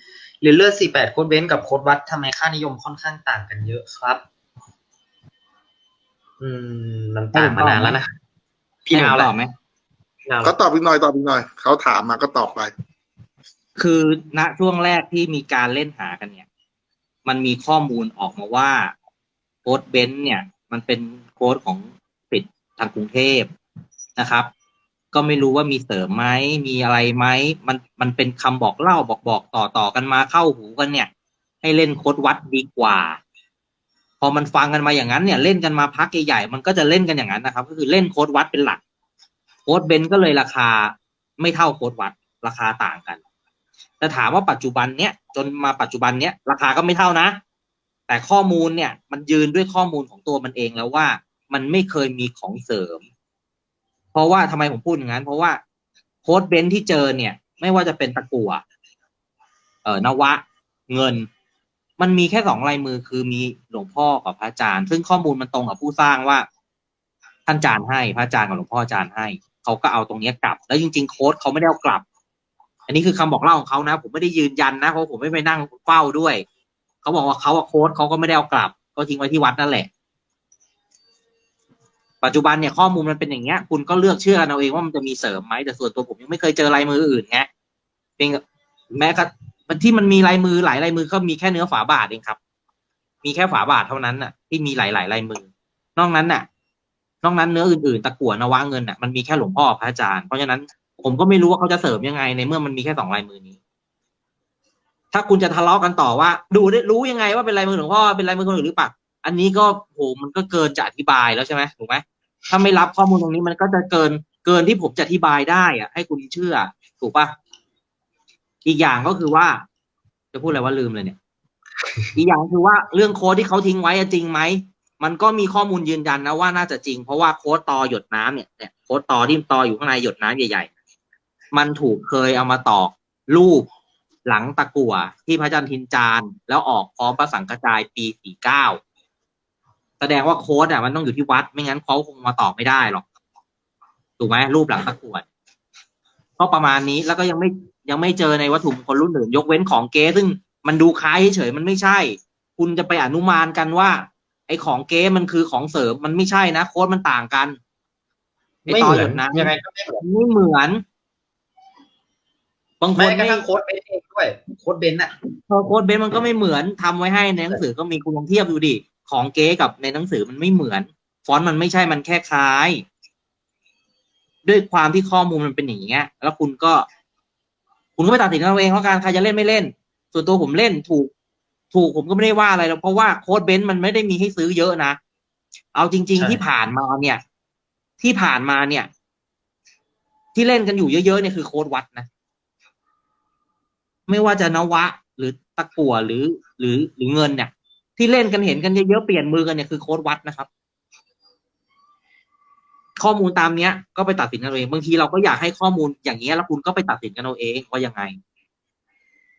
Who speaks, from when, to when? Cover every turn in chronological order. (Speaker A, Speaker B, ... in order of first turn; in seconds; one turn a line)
Speaker A: 0.4-4.2
Speaker A: 6.4-8.1
Speaker B: 7.3-8.0
Speaker A: 8.9-9.3
Speaker B: 8.9-9.5
Speaker A: 10.3-10.5
Speaker C: 10.4-12.7
Speaker B: 13.8-16.4
Speaker B: 17.2-18.9
Speaker B: 19.6-23.5
Speaker B: 24.2-24.5
Speaker B: 25.1-31.1
Speaker B: 31.6-33.2
Speaker B: 34.2-38.8
Speaker B: 39.7-43.2
Speaker B: 44.0-47.4
Speaker B: 48.1-53.0
Speaker B: 54.1-55.6
Speaker B: 56.2-58.6
Speaker B: 59.9-61.3
Speaker B: 62.0-66.5
Speaker B: 67.5-72.0
Speaker B: 72.9-76.4
Speaker B: 77.0-79.9
Speaker B: 82.2-87.5
Speaker B: 88.9-92.4
Speaker B: 93.2-96.5
Speaker B: 97.2-103.6
Speaker B: 105.1-117.3
Speaker B: 118.7-119.6
Speaker B: 120.3-121.2
Speaker B: 122.2-130.7
Speaker B: 131.5-133.7
Speaker B: 134.3-138.8
Speaker B: 140.0-143.0
Speaker B: 144.2-145.2
Speaker B: 146.4-157.6
Speaker A: 158.7-160.0
Speaker B: 158.7-160.8
Speaker B: 162.8-163.5
Speaker A: 162.9-165.1
Speaker B: 165.5-172.8
Speaker B: 174.4-176.9
Speaker B: 178.0-181.1
Speaker B: 181.7-185.0
Speaker B: 185.7-187.2
Speaker A: 186.2-186.4
Speaker B: 188.0-188.9
Speaker B: 190.3-192.1
Speaker B: 194.1-200.5
Speaker B: 203.0-208.2